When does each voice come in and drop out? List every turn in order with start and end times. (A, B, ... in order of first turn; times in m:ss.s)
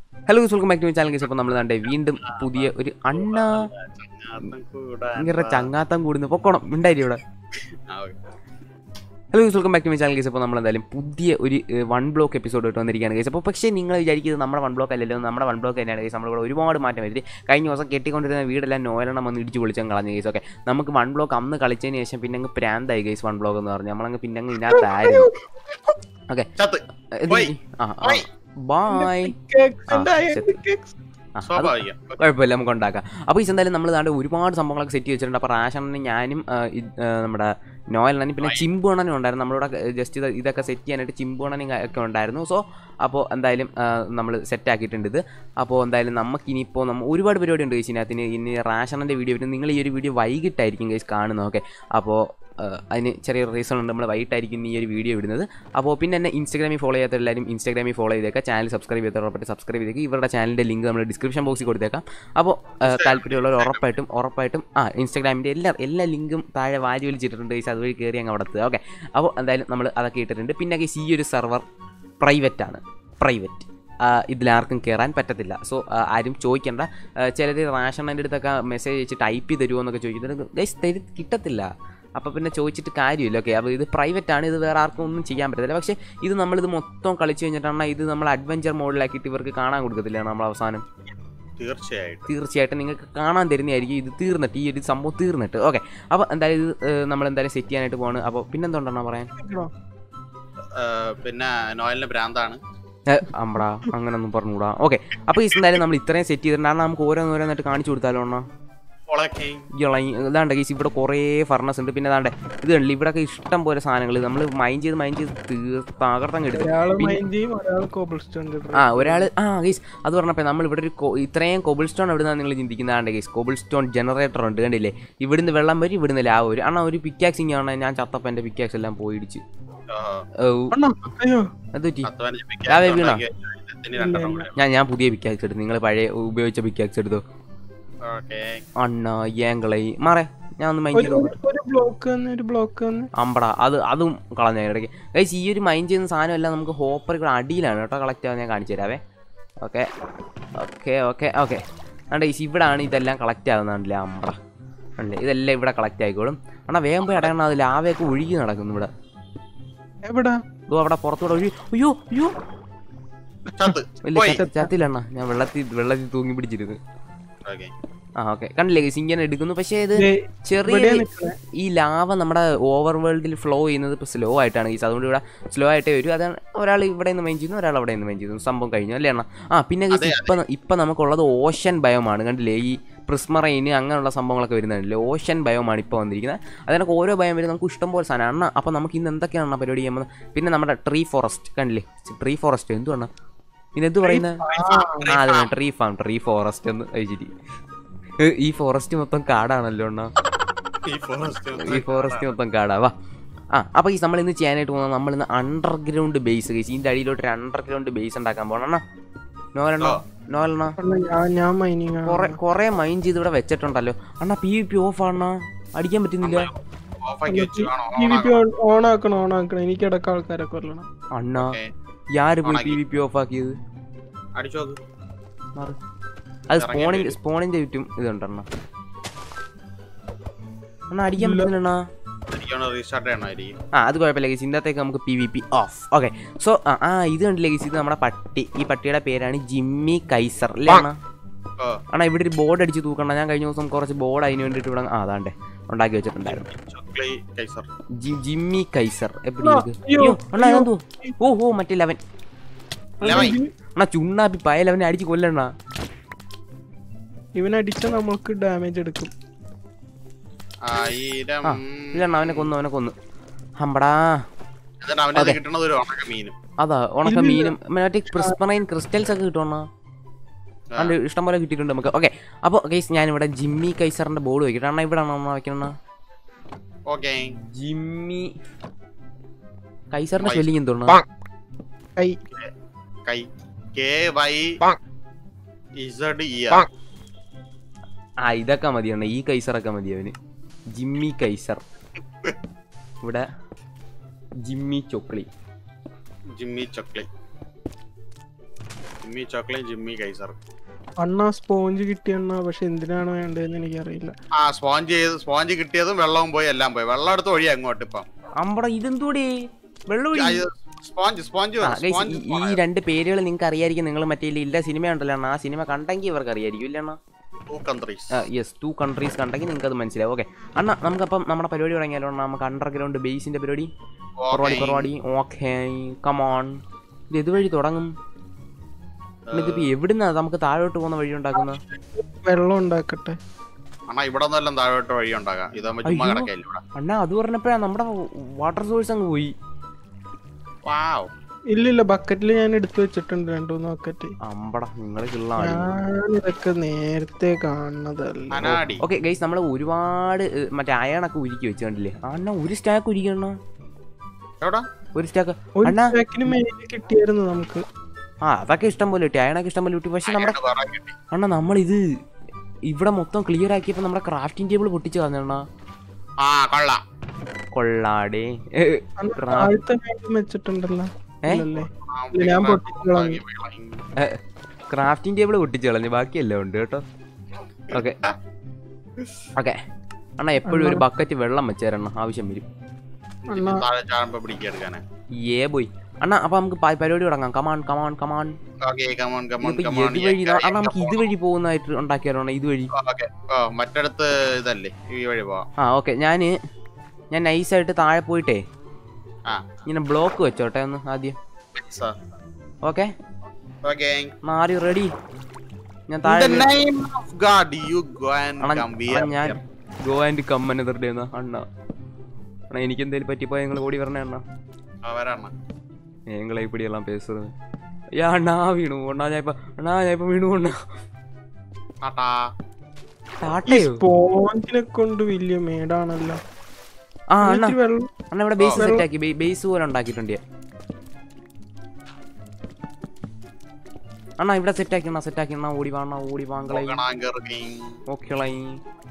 0:00.3-0:03.7 A
0:02.3-0:05.7 B
0:05.2-0:07.2 A
0:07.9-0:08.2 B
0:09.3-0:25.3 A
0:24.6-0:25.4 C
0:26.6-0:28.2 B
0:27.2-0:29.3 A
0:28.9-0:31.0 C
0:29.9-0:30.6 A
0:31.4-1:11.6 A
0:31.4-0:32.2 B
1:02.8-1:03.8 B
1:12.2-1:30.8 A
1:31.6-1:32.3 B
1:32.3-1:39.3 A
1:39.4-1:39.7 C
1:40.8-1:42.6 B
1:43.1-1:48.4 A
1:49.1-1:49.7 B
1:49.8-1:57.2 A
1:56.6-1:59.3 C
1:58.7-2:09.4 A
2:09.9-2:10.2 B
2:10.4-2:10.7 A
2:10.7-2:11.5 C
2:11.8-2:12.1 A
2:12.0-2:14.5 B
2:12.7-2:13.2 A
2:14.0-2:14.5 C
2:14.6-2:17.2 A
2:18.0-2:18.6 B
2:18.8-2:21.3 A
2:20.9-2:23.1 C
2:23.2-2:29.0 A
2:29.6-2:29.9 A
2:30.6-2:31.6 A
2:32.1-2:34.4 A
2:35.0-2:38.9 A
2:37.0-2:37.3 B
2:40.1-2:40.4 C
2:40.7-2:42.3 A
2:43.5-2:44.4 B
2:44.0-2:46.8 A
2:44.4-2:44.7 C
2:47.4-2:47.7 B
2:48.2-2:51.0 A
2:50.0-2:51.4 C
2:51.6-3:13.1 A
2:59.9-3:00.4 B
3:13.8-3:14.4 A
3:14.1-3:15.1 C
3:14.5-3:15.5 B
3:15.1-3:17.3 A
3:18.2-3:20.1 A
3:20.9-3:22.4 B
3:21.6-3:22.9 A
3:23.5-3:28.8 A
3:29.6-3:30.8 A
3:30.8-3:32.4 C
3:32.1-3:36.5 A
3:36.2-3:38.4 B
3:37.3-3:40.9 C
3:41.2-3:41.6 A
3:41.4-3:41.7 B
3:42.2-3:43.5 A
3:42.4-3:42.8 B
3:44.4-3:44.8 B
3:46.5-3:48.5 A
3:46.6-3:47.2 B
3:50.9-3:51.8 A
3:51.2-3:51.5 C
3:52.3-3:53.6 B
3:53.7-4:01.0 A
4:01.9-4:06.4 A
4:06.2-4:07.7 B
4:08.0-4:12.0 A
4:09.4-4:11.1 C
4:13.0-4:13.5 C
4:13.0-4:13.4 B
4:13.0-4:15.5 A
4:17.4-4:19.1 C
4:20.6-4:22.5 B
4:21.4-4:22.9 A
4:23.6-4:24.2 A
4:24.8-4:26.4 B
4:26.6-4:29.6 A
4:27.0-4:27.6 C
4:30.8-4:35.7 A
4:36.9-4:37.3 B
4:37.5-4:38.3 A
4:39.9-4:41.0 A
4:40.2-4:40.5 B
4:43.0-4:44.6 B
4:45.8-4:46.7 B
4:48.2-4:50.1 A
4:50.7-4:51.6 A
4:54.4-4:55.3 A
4:56.4-4:57.1 B
4:59.0-5:00.4 B
5:01.0-5:04.1 C
5:04.4-5:08.1 B
5:08.4-5:09.3 A
5:09.9-5:10.4 A
5:10.1-5:12.6 B
5:11.6-5:17.0 A
5:17.5-5:18.2 B
5:18.1-5:23.7 A
5:24.2-5:24.9 B
5:24.3-5:26.6 A
5:27.1-5:27.9 A
5:29.2-5:29.7 B
5:29.3-5:31.6 A
5:31.4-5:33.2 C
5:33.9-5:36.6 B
5:35.9-5:39.3 A
5:40.6-5:41.1 B
5:41.5-5:44.1 C
5:44.2-5:45.7 A
5:45.4-5:48.6 C
5:48.3-5:48.8 B
5:48.8-5:53.4 A
5:54.4-5:54.7 B
5:55.0-5:55.9 A
5:55.6-5:57.6 C
5:58.2-6:00.4 A
6:00.1-6:00.9 B
6:01.1-6:01.8 A
6:02.7-6:05.4 A
6:06.2-6:06.8 B
6:07.5-6:09.5 A
6:09.0-6:13.2 C
6:11.6-6:13.8 B
6:14.7-6:16.8 A
6:17.7-6:18.1 B
6:17.7-6:18.0 A
6:20.2-6:22.4 A
6:20.5-6:20.8 C
6:23.2-6:24.8 B
6:23.3-6:23.6 C
6:25.2-6:28.3 A
6:28.6-6:31.1 B
6:29.4-6:32.7 A
6:32.7-6:35.4 B
6:35.6-6:36.3 A
6:37.1-6:38.4 A
6:39.7-6:41.2 A
6:41.6-6:42.0 B
6:42.6-6:42.9 A
6:43.6-6:44.1 B
6:44.2-6:44.9 A
6:45.9-6:46.5 A
6:46.0-6:49.4 B
6:48.4-6:51.4 A
6:52.5-6:54.2 A
6:54.8-6:55.3 B
6:56.1-6:57.3 A
6:58.0-7:00.6 A
7:01.8-7:02.3 B
7:03.2-7:03.8 A
7:03.5-7:06.2 C
7:07.1-7:07.6 A
7:07.2-7:07.9 C
7:08.1-7:10.2 A
7:08.6-7:08.8 C
7:14.2-7:16.8 A
7:16.5-7:17.7 B
7:17.9-7:18.6 A